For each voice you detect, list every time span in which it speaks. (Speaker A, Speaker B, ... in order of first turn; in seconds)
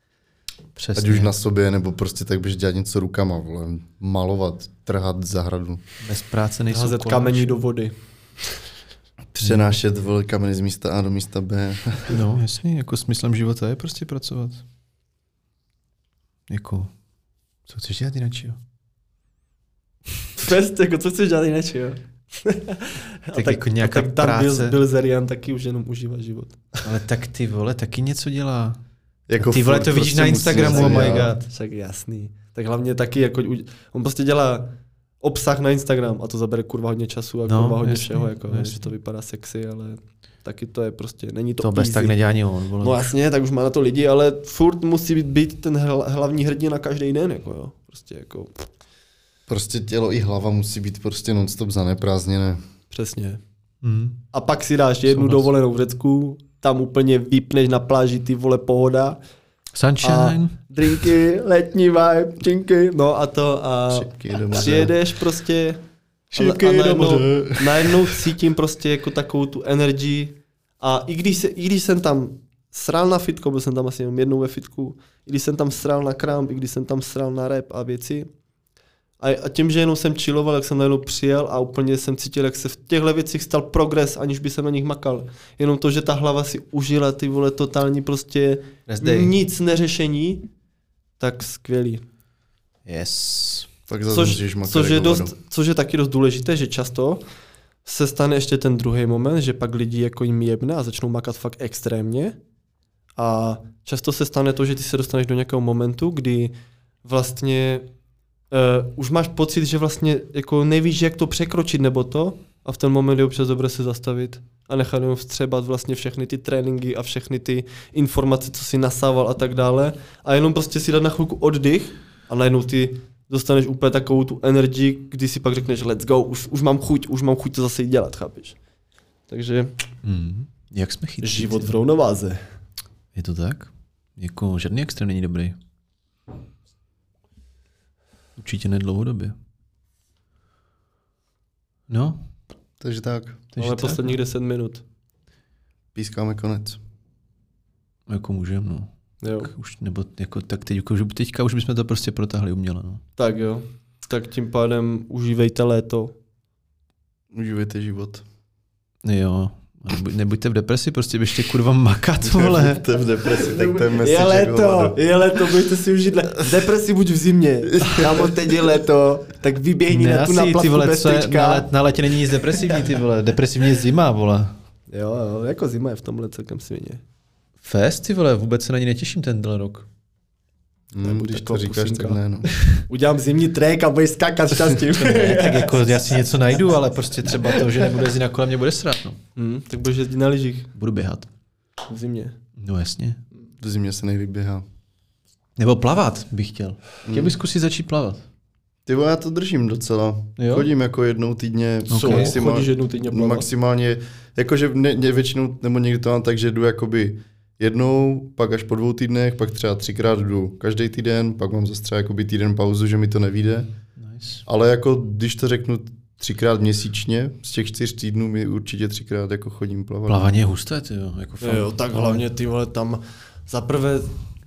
Speaker A: 0.8-1.3, 6.0-7.5, 12.1-14.6, 16.5-16.9, 17.7-18.6, 23.3-24.8, 26.8-28.8, 29.4-31.4, 37.5-38.9, 41.6-43.1, 53.8-54.2, 55.1-55.5, 59.7-60.5, 66.4-67.4, 88.9-89.3, 92.8-93.7, 130.0-131.7, 133.1-135.6, 138.4-139.3, 141.9-142.2, 143.5-144.2, 148.1-148.9, 149.4-153.0, 159.0-162.8, 169.9-174.5, 177.6-179.8, 184.8-189.2, 190.8-191.3, 192.6-193.2, 195.6-198.2, 200.4-200.7, 201.9-202.3, 214.0-214.4, 220.1-222.2
Speaker B: 0.9-5.8, 9.3-12.2, 29.3-31.3, 49.5-52.6, 63.9-64.9, 66.5-68.0, 93.9-95.3, 142.8-143.4, 145.9-146.8, 157.3-158.2, 162.2-165.0, 167.8-168.3, 180.9-182.5, 193.6-194.6, 197.1-197.3, 198.8-213.7, 214.4-220.3
Speaker C: 6.7-7.9, 20.4-26.6, 30.6-42.1, 42.8-48.5, 52.9-53.4, 54.3-59.2, 60.0-65.8, 66.3-78.3, 79.2-90.5, 91.2-92.0, 94.1-97.2, 97.8-102.3, 103.2-106.5, 107.0-107.9, 108.5-128.6, 129.3-129.7, 131.2-132.4, 143.6-144.8, 149.2-149.5, 153.2-156.1, 163.6-171.7, 172.4-172.7, 174.9-177.0, 181.0-182.2, 182.9-186.2, 187.5-187.8, 189.3-190.7, 191.9-192.3, 201.9-203.5, 221.4-224.1